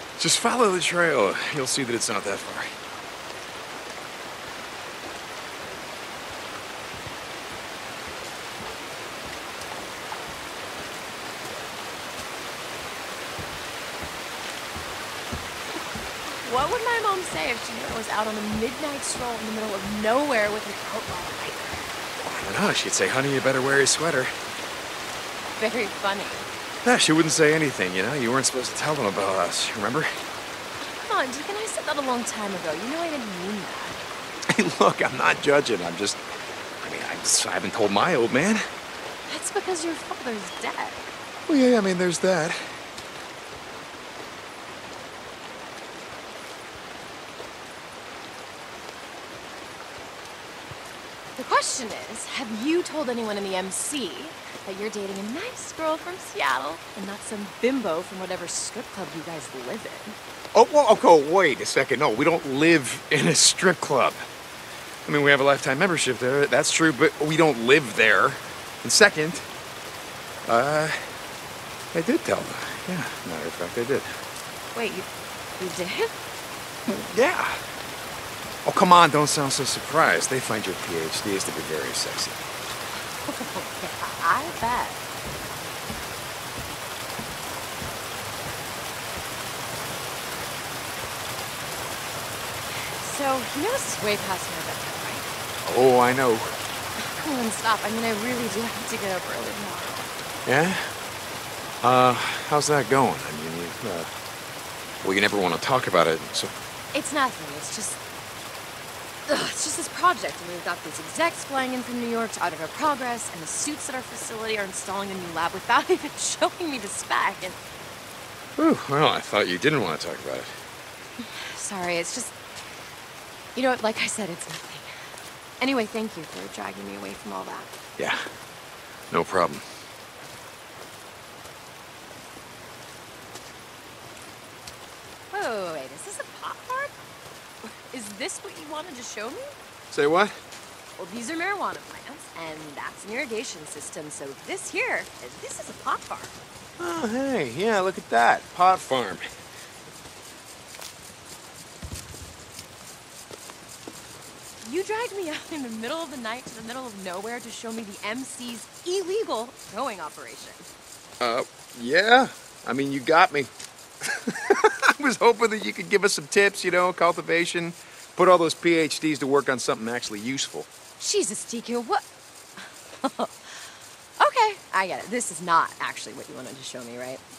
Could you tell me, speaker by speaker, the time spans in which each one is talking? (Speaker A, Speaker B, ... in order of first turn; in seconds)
Speaker A: 0.2-2.8, 22.2-24.3, 26.8-30.1, 34.5-36.2, 36.8-38.7, 41.5-42.8, 60.5-64.3, 65.0-69.5, 70.4-71.2, 71.9-74.2, 76.8-77.6, 78.6-82.5, 95.6-96.6, 100.4-100.9, 101.8-104.1, 105.0-106.5, 118.5-120.6, 128.0-128.2, 129.1-129.7, 139.9-140.4, 146.8-149.3, 161.2-163.5, 164.0-170.7
Speaker B: 16.4-21.8, 25.6-26.4, 30.9-34.0, 39.3-41.1, 51.4-60.2, 74.7-76.1, 83.1-85.0, 92.7-95.3, 97.0-100.1, 106.9-108.0, 109.3-117.6, 121.2-122.3, 123.5-124.9, 125.6-127.7, 135.3-136.9, 137.6-139.5, 141.0-146.3, 154.6-160.7, 171.0-172.0, 172.6-177.2